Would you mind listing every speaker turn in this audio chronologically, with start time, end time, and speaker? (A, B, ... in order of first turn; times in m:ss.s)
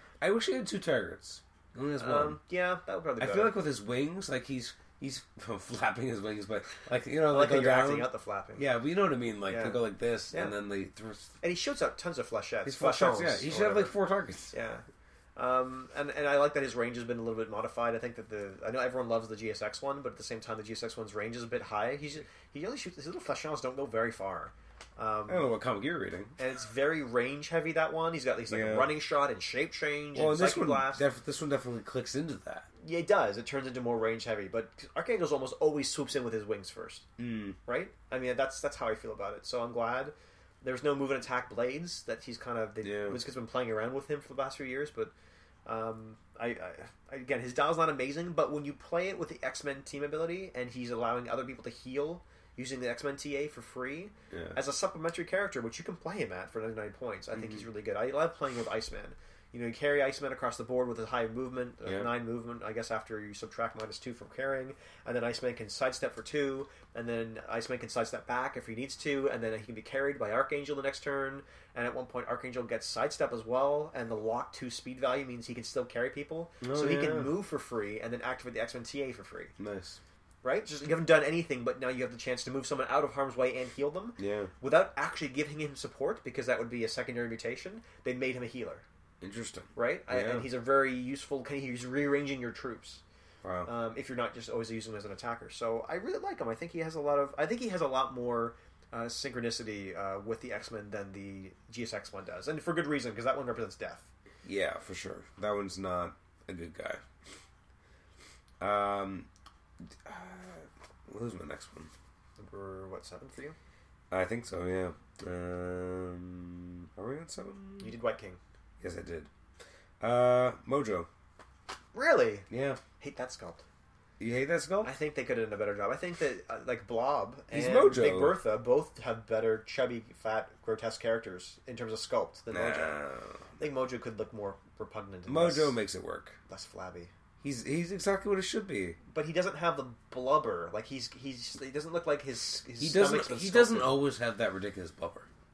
0:00.2-0:02.4 A
0:02.0-0:03.6 B
0:03.2-0:11.3 A
0:07.3-0:08.7 B
0:09.5-0:09.8 B
0:11.4-0:13.9 B
0:12.6-0:14.5 A
0:14.5-0:14.8 B
0:15.4-0:25.5 B
0:25.3-0:26.4 A
0:26.4-0:31.0 B
0:28.5-0:28.9 A
0:30.2-0:32.7 A
0:32.8-0:37.1 B
0:37.2-0:37.6 A
0:37.7-0:45.1 B
0:42.8-0:43.2 A
0:45.6-1:19.5 B
0:54.3-0:54.6 A
0:57.3-0:57.6 A
1:01.8-1:02.1 A
1:16.6-1:17.3 A
1:19.6-1:20.0 A
1:20.4-1:28.8 B
1:24.2-1:24.5 A
1:29.2-1:30.5 A
1:29.8-1:33.0 B
1:33.4-1:33.7 A
1:33.7-1:44.1 B
1:44.4-1:47.0 A
1:48.6-1:49.3 A
1:50.0-1:51.9 A
1:52.4-1:53.6 B
1:54.1-1:58.0 A
1:57.8-1:58.4 B
1:58.8-1:59.3 A
2:00.0-2:01.1 A
2:01.9-2:02.5 B
2:02.5-2:02.8 A
2:03.0-2:03.6 B
2:04.2-2:04.9 A
2:04.8-2:13.0 B
2:07.5-2:08.4 A
2:12.5-2:13.4 A
2:13.6-2:15.8 B
2:15.3-2:16.4 A
2:16.5-2:17.1 B
2:17.4-2:19.0 A
2:19.1-2:24.0 B
2:22.8-2:25.3 A